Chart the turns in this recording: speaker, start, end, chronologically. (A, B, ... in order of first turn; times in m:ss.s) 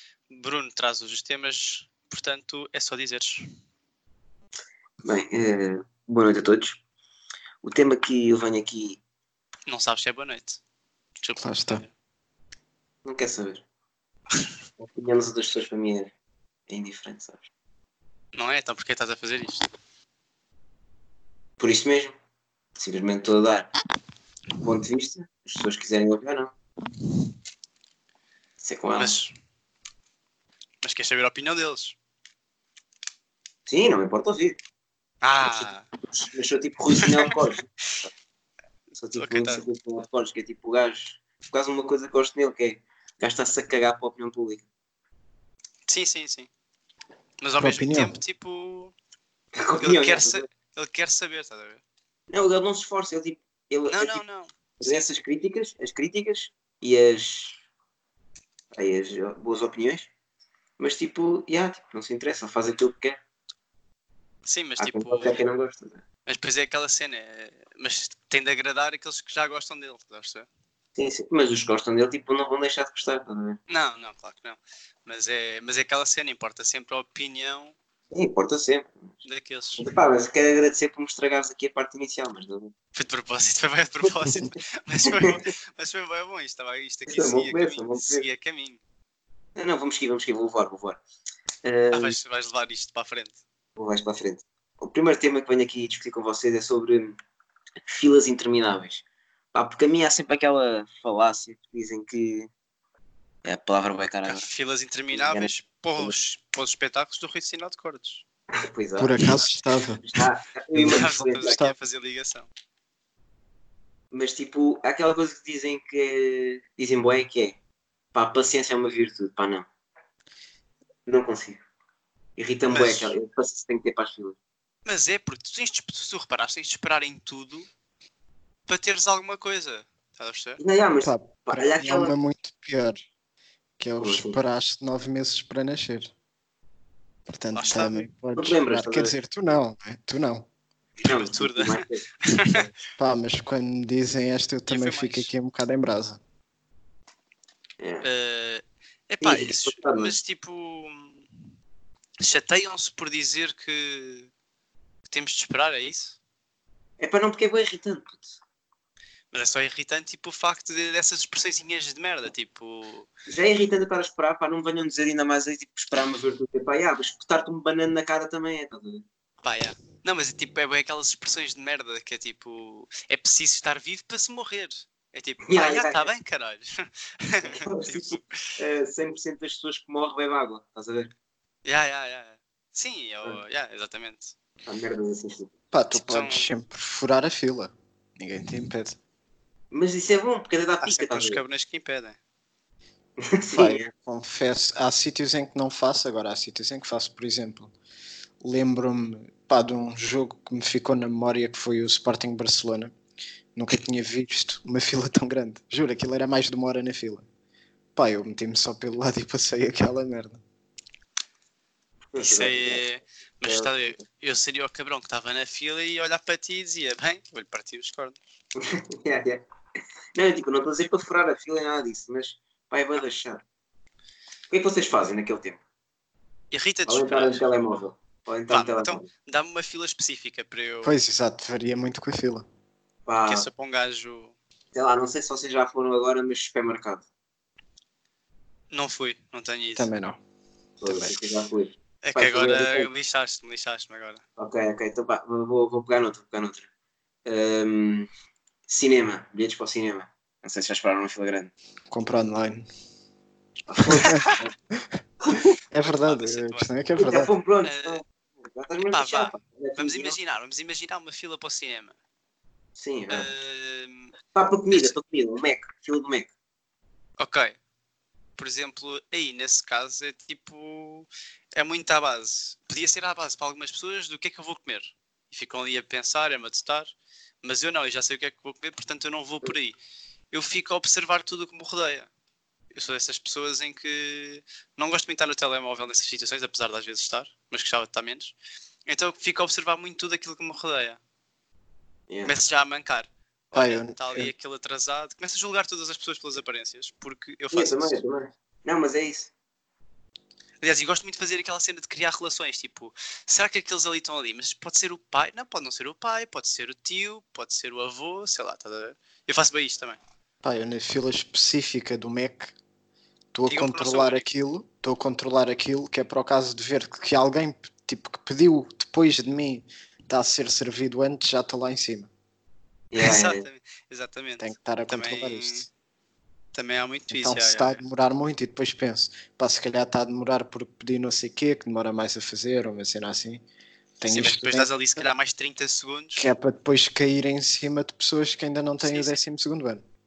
0:00.3-0:03.4 A
0:05.0-0:06.8 B
0:07.6-0:09.0 B
0:09.7-0:10.6 A
0:11.2-0:11.9 A
0:11.4-0:11.8 C
0:13.0-0:13.6 B
0:14.8-0:16.1 B
0:16.7-0:17.4 B
0:18.3-0:19.7 A
0:21.6-0:22.1 B
0:22.8-0:23.7 B
0:24.6-0:26.5 B
0:28.6-0:29.2 B
0:29.0-0:29.3 A
0:30.8-0:32.0 A
0:33.7-0:34.6 B
0:35.2-0:35.9 A
0:35.4-0:38.1 B
0:38.9-0:44.6 B
0:39.2-0:39.6 A
0:45.9-0:46.5 A
0:47.4-0:48.9 A
0:47.6-0:48.2 C
0:49.5-0:50.4 B
0:49.8-0:51.8 A
0:52.3-0:54.2 B
0:53.9-0:54.5 A
0:54.8-0:57.6 B
0:58.7-1:00.1 B
1:00.8-1:03.2 B
1:04.4-1:05.4 A
1:04.8-1:06.0 B
1:06.2-1:10.5 A
1:11.0-1:13.6 B
1:13.7-1:17.7 A
1:18.1-1:19.0 B
1:19.2-1:19.9 A
1:19.8-1:22.7 B
1:22.9-1:28.8 A
1:24.0-1:24.4 B
1:25.0-1:25.4 B
1:27.1-1:28.2 B
1:29.6-1:31.0 B
1:31.6-1:32.2 B
1:31.9-1:33.4 A
1:33.8-1:37.2 B
1:37.9-1:42.5 B
1:43.4-1:44.5 B
1:44.2-1:48.2 A
1:45.1-1:46.1 B
1:48.5-1:49.3 B
1:49.0-1:50.0 C
1:50.0-1:51.5 B
1:50.7-1:52.5 A
1:50.9-1:51.8 C
1:54.1-1:57.6 B
1:58.1-1:59.7 B
2:01.0-2:01.6 B
2:02.4-2:04.4 B
2:02.7-2:03.1 A
2:04.8-2:07.7 A
2:08.7-2:10.6 A
2:10.6-2:12.1 B
2:11.0-2:13.0 C
2:13.8-2:16.1 C
2:14.0-2:14.4 B
2:17.3-2:20.5 C
2:17.5-2:18.0 A
2:18.4-2:19.2 B
2:21.0-2:22.7 B
2:21.0-2:22.7 A
2:23.0-2:26.2 C
2:24.7-2:25.3 A
2:27.8-2:28.0 B
2:28.0-2:31.2 A
2:29.2-2:30.2 B
2:32.2-2:34.3 A
2:35.1-2:36.2 A
2:37.0-2:38.4 B
2:39.3-2:43.1 A
2:43.3-2:49.0 B
2:49.4-2:58.6 A
2:55.4-2:56.1 B
2:57.4-3:01.1 B
3:01.6-3:04.3 A
3:04.6-3:05.5 B
3:05.7-3:09.0 C
3:05.9-3:06.5 A
3:09.7-3:11.4 B
3:10.8-3:12.2 A
3:13.2-3:13.9 B
3:13.5-3:17.7 C
3:18.4-3:22.9 C
3:23.5-3:27.2 C
3:27.9-3:30.4 C
3:32.1-3:32.8 B
3:32.2-3:38.2 A
3:33.4-3:34.0 B
3:38.6-3:39.4 B
3:40.1-3:43.4 B
3:44.5-3:45.6 B
3:46.5-3:47.5 A
3:46.8-3:49.1 B
3:48.5-3:50.9 A
3:50.8-3:52.4 C
3:53.1-3:53.4 B
3:53.3-3:54.3 A
3:54.7-3:57.0 B
3:58.7-3:59.9 A
3:59.8-4:00.2 C
4:00.8-4:02.9 B
4:00.8-4:01.2 C
4:02.0-4:04.2 A
4:04.4-4:06.7 B
4:07.2-4:08.1 B
4:08.7-4:11.5 B
4:11.9-4:12.6 C
4:13.7-4:14.5 B
4:13.9-4:14.9 C
4:14.0-4:14.4 A
4:15.2-4:15.5 B
4:15.7-4:17.3 C
4:15.8-4:16.7 A
4:17.0-4:20.2 B
4:17.6-4:18.0 A
4:18.9-4:21.9 A
4:22.8-4:23.3 B
4:23.1-4:24.1 A
4:24.3-4:26.3 B
4:27.2-4:27.6 A
4:28.4-4:36.9 A
4:37.4-4:39.8 A
4:40.3-4:42.1 A
4:42.7-4:48.3 A
4:48.9-4:51.0 A
4:52.1-4:52.3 B
4:52.2-4:58.0 A
4:53.5-4:54.3 C
4:57.5-4:59.3 B
5:00.6-5:10.0 A
5:10.4-5:12.5 C
5:13.3-5:22.1 C
5:13.5-5:14.2 A
5:22.9-5:23.5 B
5:23.0-5:25.7 A
5:24.4-5:25.7 C
5:26.5-5:27.8 A
5:27.1-5:33.4 C
5:34.0-5:34.7 C
5:34.0-5:36.3 A
5:36.2-5:39.8 C
5:38.8-5:39.2 A